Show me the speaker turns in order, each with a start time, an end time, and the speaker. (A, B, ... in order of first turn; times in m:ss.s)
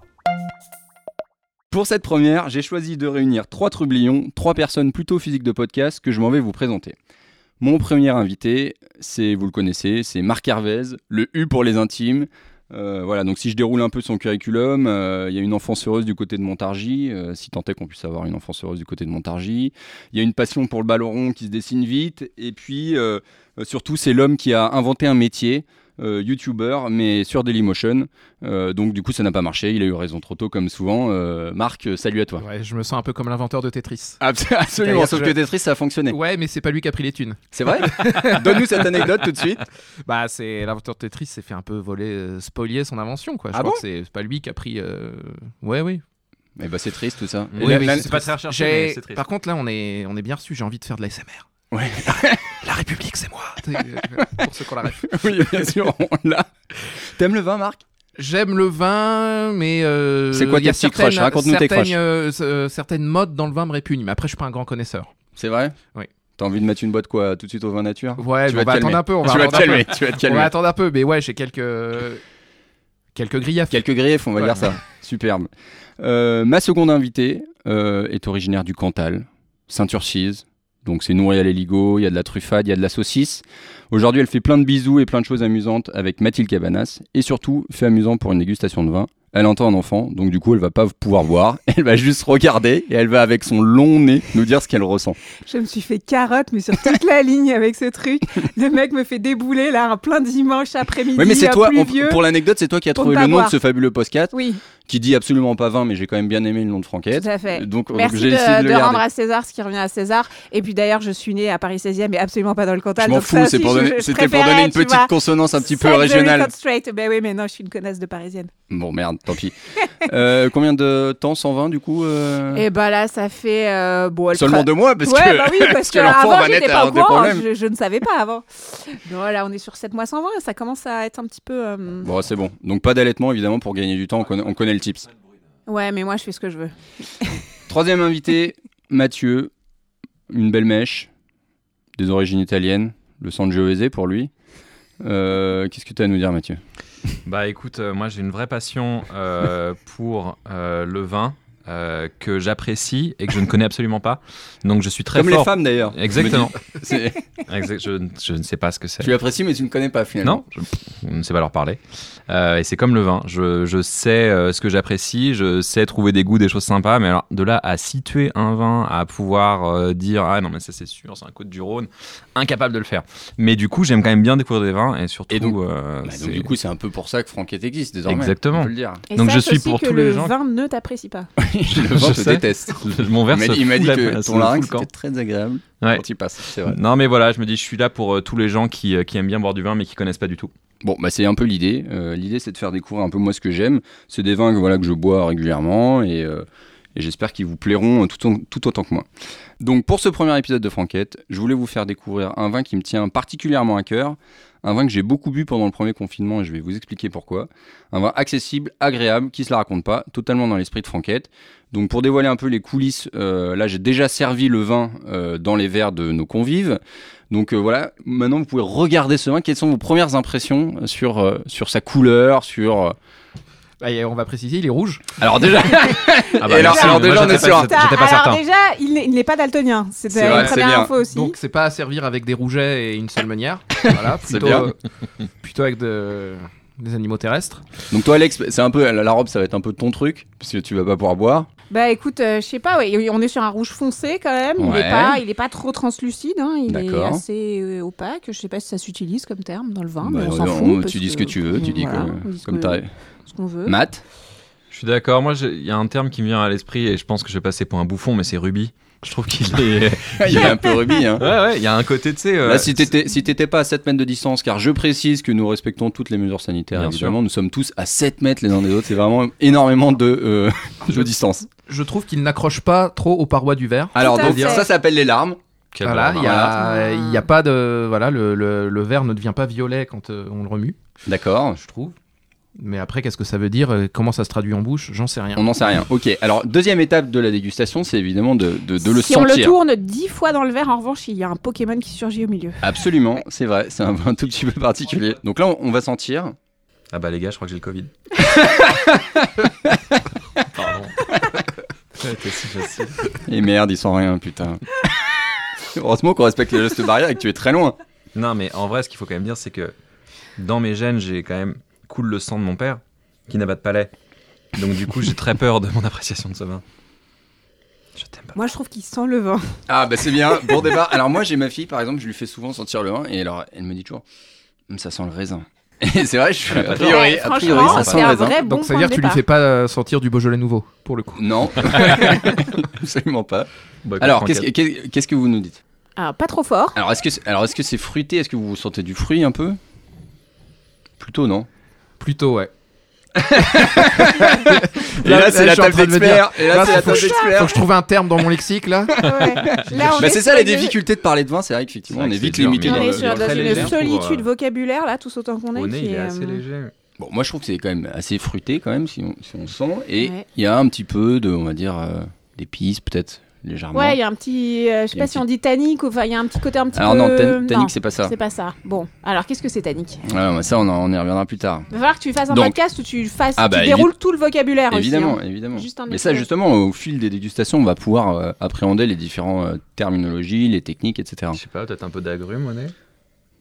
0:01.7-0:07.0 A
0:07.6-0:32.4 A
0:32.4-0:34.2 B
0:34.2-0:36.2 A
0:34.8-0:35.4 B
0:36.1-0:39.2 B
0:37.5-0:39.6 A
0:40.0-0:46.0 B
0:43.5-0:43.8 A
0:46.6-0:48.2 A
0:47.5-0:49.2 C
0:47.6-0:51.5 B
0:51.7-0:52.6 A
0:52.6-0:55.7 B
0:54.0-0:54.4 A
0:54.9-0:57.8 A
0:58.2-1:05.1 B
1:00.3-1:02.0 A
1:05.4-1:05.8 A
1:06.4-1:10.5 A
1:08.2-1:12.2 B
1:13.1-1:13.8 B
1:13.7-1:35.2 A
1:14.4-1:14.7 B
1:35.4-1:42.2 D
1:41.1-1:44.3 A
1:42.9-1:43.6 D
1:44.3-1:44.6 D
1:44.8-1:49.0 A
1:47.1-1:58.5 D
1:53.0-1:56.5 A
1:58.7-2:02.6 A
2:02.5-2:12.1 D
2:04.3-2:07.4 A
2:12.0-2:15.1 A
2:15.7-2:17.4 D
2:17.7-2:19.5 A
2:20.3-2:21.1 A
2:22.0-2:24.3 A
2:25.0-2:26.6 A
2:27.2-2:36.6 C
2:35.1-2:37.2 A
2:37.5-2:39.1 C
2:39.0-2:40.4 A
2:40.2-2:56.5 C
2:55.3-2:59.0 A
2:58.0-3:00.3 C
2:59.1-3:01.3 D
3:01.4-3:06.8 A
3:01.7-3:04.9 C
3:05.8-3:10.5 C
3:10.8-3:19.0 A
3:19.6-3:36.8 A
3:37.3-3:43.0 A
3:43.8-3:45.2 B
3:45.2-3:47.7 A
3:46.4-3:48.4 C
3:46.5-3:51.3 D
3:50.1-3:50.9 A
3:50.2-3:54.8 B
3:53.8-3:54.7 A
3:55.4-3:57.6 B
3:57.9-4:01.5 A
4:01.7-4:13.8 D
4:04.6-4:05.2 A
4:06.7-4:07.2 A
4:10.0-4:12.9 A
4:13.6-4:14.0 A
4:14.7-4:22.8 C
4:20.2-4:21.3 A
4:22.4-4:31.5 A
4:26.7-4:27.2 C
4:31.7-4:34.6 B
4:33.9-4:35.4 A
4:34.0-4:34.6 D
4:35.7-4:36.4 C
4:35.8-4:40.8 B
4:36.1-4:36.5 A
4:36.6-4:37.2 D
4:41.0-4:41.6 A
4:41.6-4:42.0 B
4:42.6-4:45.4 B
4:45.4-4:49.6 A
4:48.8-4:52.6 D
4:52.6-4:56.3 A
4:56.9-4:57.9 C
4:58.2-4:59.7 A
5:00.4-5:01.0 C
5:02.0-5:02.9 C
5:03.1-5:04.8 A
5:05.6-5:07.8 A
5:08.1-5:09.7 C
5:10.4-5:13.9 C
5:14.6-5:16.6 C
5:18.0-5:18.4 C
5:18.3-5:19.5 D
5:19.7-5:24.0 A
5:24.7-5:28.4 A
5:26.5-5:28.1 C
5:26.7-5:29.2 D
5:28.3-5:32.2 B
5:31.2-5:35.6 A
5:33.8-5:34.5 C
5:36.0-5:36.8 D
5:36.7-5:39.6 A
5:41.0-5:41.5 A
5:42.0-5:42.5 B
5:43.2-5:47.6 A
5:43.2-5:49.0 B
5:46.6-5:47.5 D
5:48.9-5:53.8 A
5:49.0-5:50.8 D
5:49.7-5:50.0 C
5:51.9-5:54.3 C
5:52.6-5:56.4 D
5:55.5-5:56.7 C
5:57.0-6:04.0 A
6:00.0-6:00.2 D
6:03.7-6:10.0 D
6:04.9-6:05.2 A
6:06.7-6:08.1 A
6:10.0-6:11.6 A
6:11.7-6:16.3 D
6:12.3-6:12.6 A
6:13.4-6:13.9 A
6:14.7-6:21.4 A
6:21.3-6:22.7 C